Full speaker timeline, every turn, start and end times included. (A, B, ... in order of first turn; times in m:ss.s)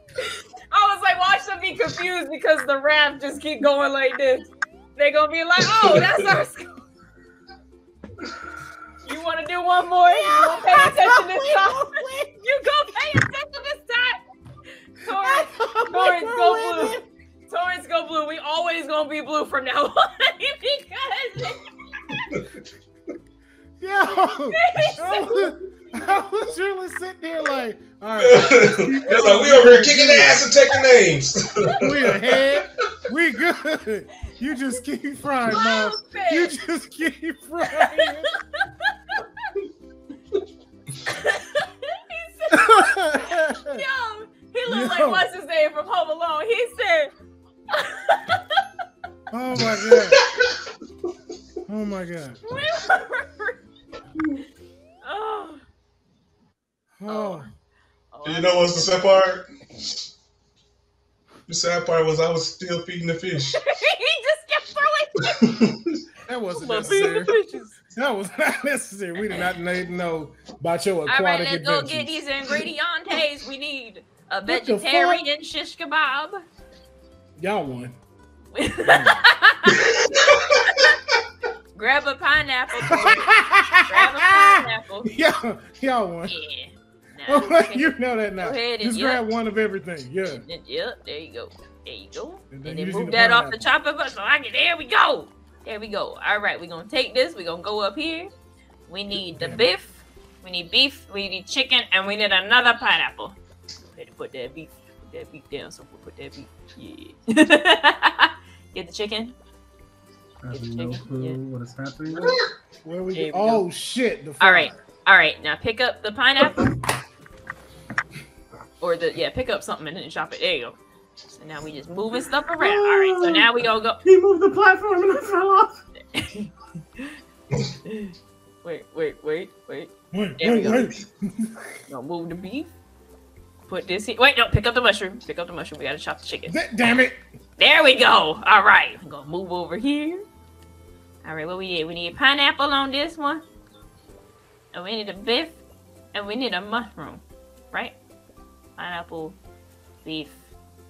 0:00.7-0:06.7 A
0:05.6-0:06.3 B
0:09.0-0:14.2 A
0:10.1-0:12.1 C
0:15.0-0:21.6 A
0:15.1-0:17.0 C
0:23.8-0:30.5 C
0:24.1-0:25.6 A
0:28.2-0:32.9 B
0:31.8-0:38.3 C
0:35.5-0:36.6 A
0:37.7-0:39.2 A
0:41.1-0:47.1 A
0:42.5-0:43.8 C
0:44.7-0:45.3 C
0:47.7-0:48.4 A
0:49.3-0:50.2 C
0:49.6-0:50.6 B
0:51.7-0:52.4 C
0:52.4-0:53.6 A
0:55.0-0:55.6 A
0:57.0-0:57.5 C
0:57.1-0:57.5 A
0:58.1-0:59.2 A
0:58.2-0:59.5 B
1:01.5-1:03.6 B
1:03.5-1:05.7 A
1:05.5-1:06.0 B
1:06.3-1:07.3 C
1:06.5-1:07.8 A
1:07.9-1:12.3 C
1:11.1-1:16.4 A
1:14.5-1:15.2 C
1:17.4-1:18.0 C
1:18.5-1:19.9 A
1:18.8-1:19.2 C
1:19.7-1:20.9 B
1:21.8-1:25.1 A
1:22.9-1:24.4 C
1:25.0-1:26.4 C
1:26.3-1:29.3 A
1:27.3-1:30.4 C
1:30.4-1:38.3 A
1:32.5-1:33.7 C
1:38.9-1:49.4 A
1:39.1-1:39.7 C
1:50.4-1:52.4 D
1:50.5-1:51.4 A
1:52.1-1:52.5 B
1:52.8-1:54.8 C
1:53.1-1:53.7 A
1:54.4-1:56.7 A
1:58.8-2:00.8 A
2:01.3-2:04.0 A
2:02.6-2:03.5 D
2:04.0-2:05.8 D
2:06.1-2:07.1 A
2:07.9-2:10.9 A
2:10.1-2:11.8 C
2:11.9-2:12.7 A
2:13.7-2:16.6 A
2:16.5-2:17.2 C
2:17.6-2:20.2 A
2:21.2-2:23.4 A
2:24.7-2:25.6 A
2:26.1-2:28.0 A
2:28.8-2:29.4 A
2:30.0-2:30.4 A